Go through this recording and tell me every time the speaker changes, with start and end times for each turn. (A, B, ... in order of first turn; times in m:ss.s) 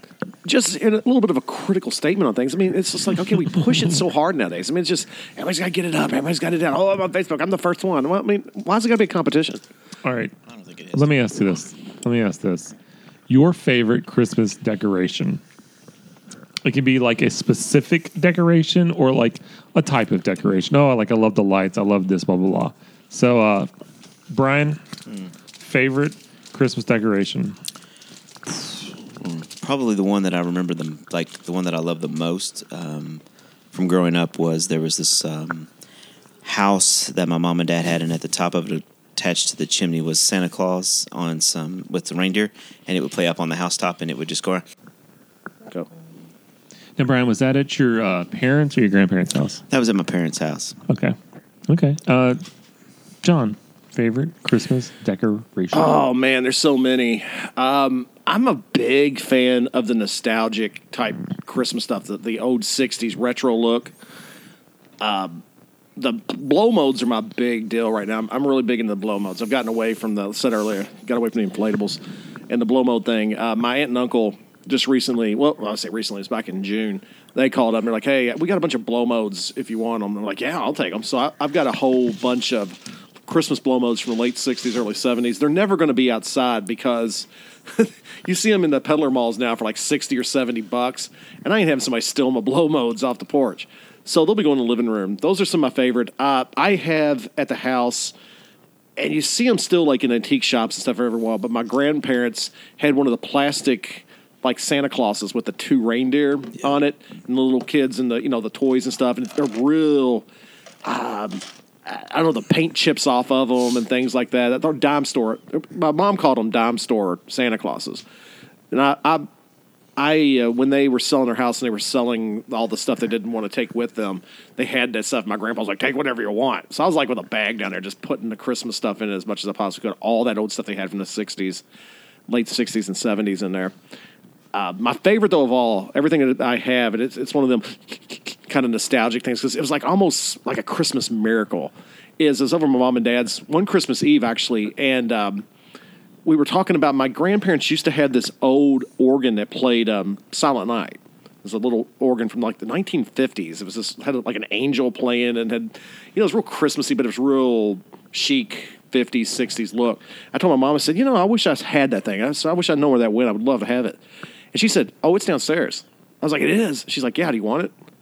0:00.4-0:09.6 A
0:10.0-0:10.3 B
0:10.5-0:11.3 C
0:10.9-0:12.7 B
0:13.3-0:15.4 B
0:16.6-0:23.7 B
0:24.3-0:24.8 B
0:25.6-0:27.6 B
0:29.2-0:35.7 C
0:36.4-0:44.6 C
0:47.0-0:49.6 B
0:49.7-0:50.8 C
0:50.9-0:51.2 B
0:51.7-0:52.4 B
0:53.2-0:55.9 B
0:55.7-1:03.9 A
1:05.0-1:05.4 A
1:06.0-1:38.1 A
1:39.0-1:50.2 A
1:50.8-1:58.0 A
1:58.7-1:59.3 A
2:00.0-2:11.6 A
2:12.3-2:13.7 A
2:14.5-2:25.4 A
2:26.2-2:44.0 A
2:44.5-2:47.7 A